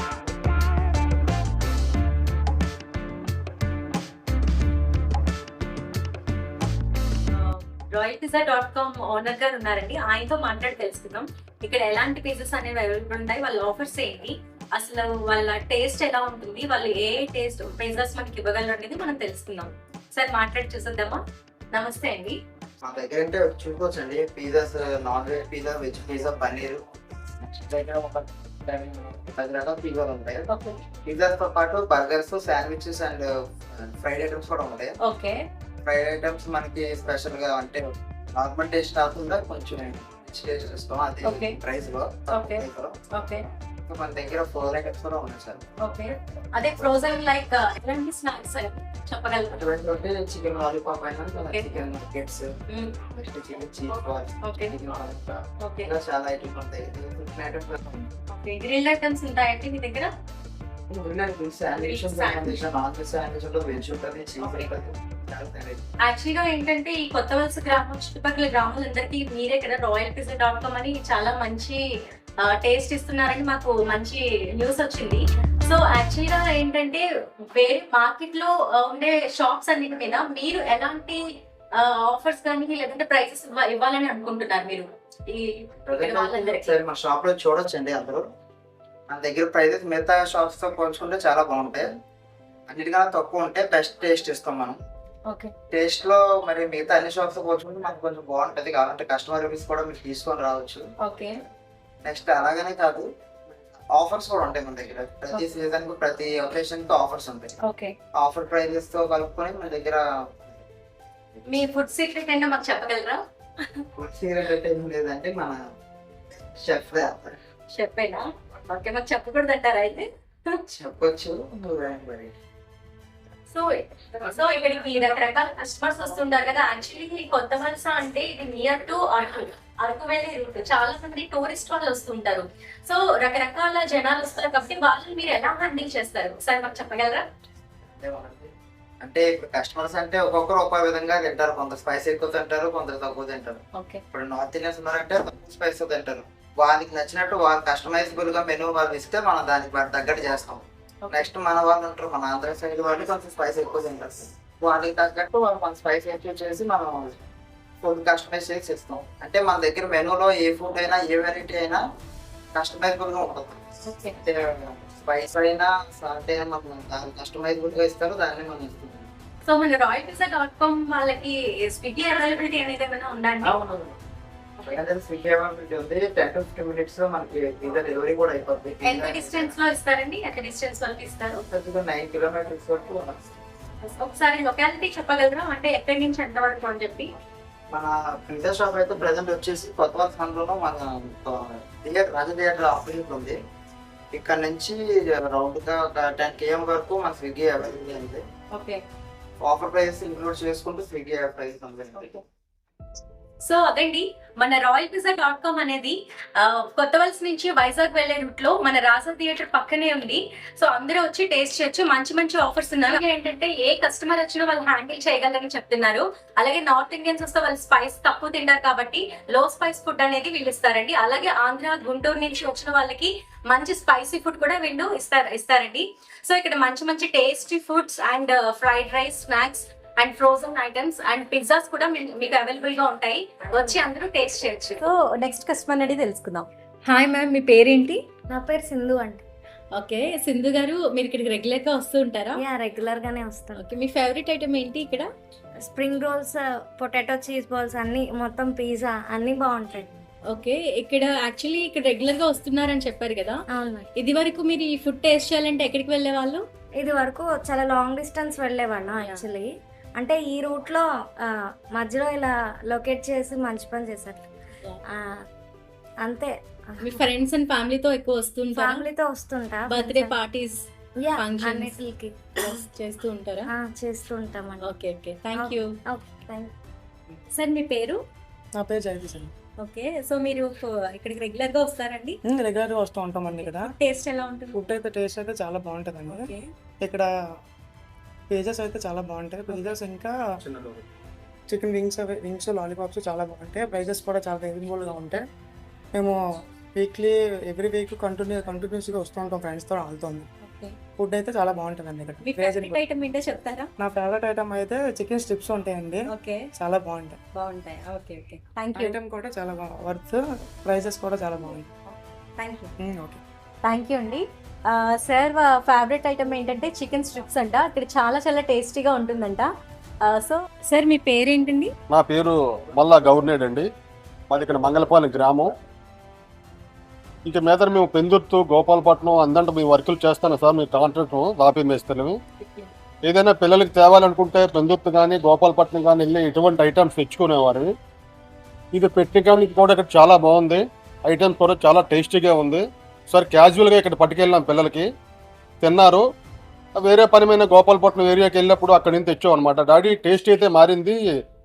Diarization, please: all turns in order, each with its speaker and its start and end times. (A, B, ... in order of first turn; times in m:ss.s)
0:07.3-0:21.2 A
0:21.7-0:22.4 A
0:22.8-0:26.9 B
0:27.4-0:30.4 B
0:30.5-0:30.8 A
0:31.0-0:34.9 B
0:35.0-0:35.4 A
0:35.8-0:43.0 B
0:41.2-0:41.6 A
0:42.3-0:43.4 A
0:43.9-0:45.6 B
0:45.8-0:49.6 A
0:49.5-0:52.5 B
0:52.7-0:53.0 A
0:53.0-0:57.8 B
0:54.4-0:54.8 A
0:55.6-0:55.9 A
0:58.2-1:00.1 A
1:00.9-1:05.8 B
1:01.8-1:02.6 A
1:04.4-1:04.7 A
1:06.0-1:11.8 A
1:12.4-1:21.2 A
1:21.7-1:26.8 A
1:25.8-1:28.2 B
1:29.1-1:31.9 B
1:32.7-1:34.8 B
1:35.3-1:35.5 A
1:35.7-1:40.8 B
1:41.0-1:41.3 A
1:42.0-1:43.1 B
1:43.9-1:47.6 B
1:47.6-1:47.9 A
1:48.2-1:50.6 B
1:51.5-1:53.2 A
1:54.0-1:55.6 B
1:56.6-1:57.4 B
1:57.7-2:00.5 A
2:00.7-2:02.3 B
2:03.5-2:17.2 A
2:18.0-2:18.5 B
2:19.0-2:37.2 B
2:23.7-2:24.0 A
2:31.0-2:31.3 A
2:37.8-2:41.8 B
2:42.5-2:43.6 B
2:43.8-2:44.2 A
2:44.2-2:49.1 B
2:49.4-2:53.5 A
2:53.4-2:54.0 B
2:54.6-2:59.5 B
2:58.8-3:01.4 A
3:01.5-3:03.2 B
3:03.8-3:07.1 A
3:07.7-3:13.4 B
3:14.1-3:18.2 B
3:18.5-3:18.8 A
3:19.4-3:22.2 B
3:23.4-3:58.0 A
3:58.3-3:59.2 C
3:59.7-4:02.4 A
4:02.4-4:03.6 C
4:03.5-4:05.1 A
4:05.6-4:09.9 C
4:10.3-4:13.4 A
4:13.5-4:13.9 C
4:14.0-4:16.4 A
4:16.8-4:24.2 C
4:24.9-4:25.2 C
4:26.0-4:26.3 C
4:26.8-4:28.9 A
4:28.5-4:30.1 C
4:29.7-4:31.8 A
4:31.0-4:32.6 C
4:32.4-4:33.5 A
4:33.5-4:34.7 C
4:34.6-4:35.8 A
4:35.3-4:36.5 C
4:37.3-4:38.0 A
4:38.5-4:39.3 D
4:39.6-4:42.2 A
4:42.2-4:43.7 D
4:43.4-4:44.6 A
4:44.5-4:46.3 D
4:46.1-4:46.4 A
4:46.8-4:47.1 D
4:48.3-4:50.2 D
4:50.4-4:50.8 E
4:51.5-4:55.2 D
4:55.9-4:56.2 D
4:56.7-5:00.3 D
5:00.4-5:00.8 A
5:01.0-5:02.8 D
5:02.2-5:03.7 A
5:03.8-5:07.2 D
5:06.1-5:06.4 A
5:07.3-5:09.0 A
5:08.7-5:11.7 D
5:12.4-5:12.7 A
5:12.8-5:13.2 D
5:13.6-5:19.5 A
5:20.0-5:21.7 A
5:21.9-5:23.7 E
5:24.3-5:25.5 E
5:27.2-5:32.2 E
5:33.0-5:37.7 E
5:38.7-5:44.9 E
5:45.6-5:46.0 E
5:46.7-5:51.0 E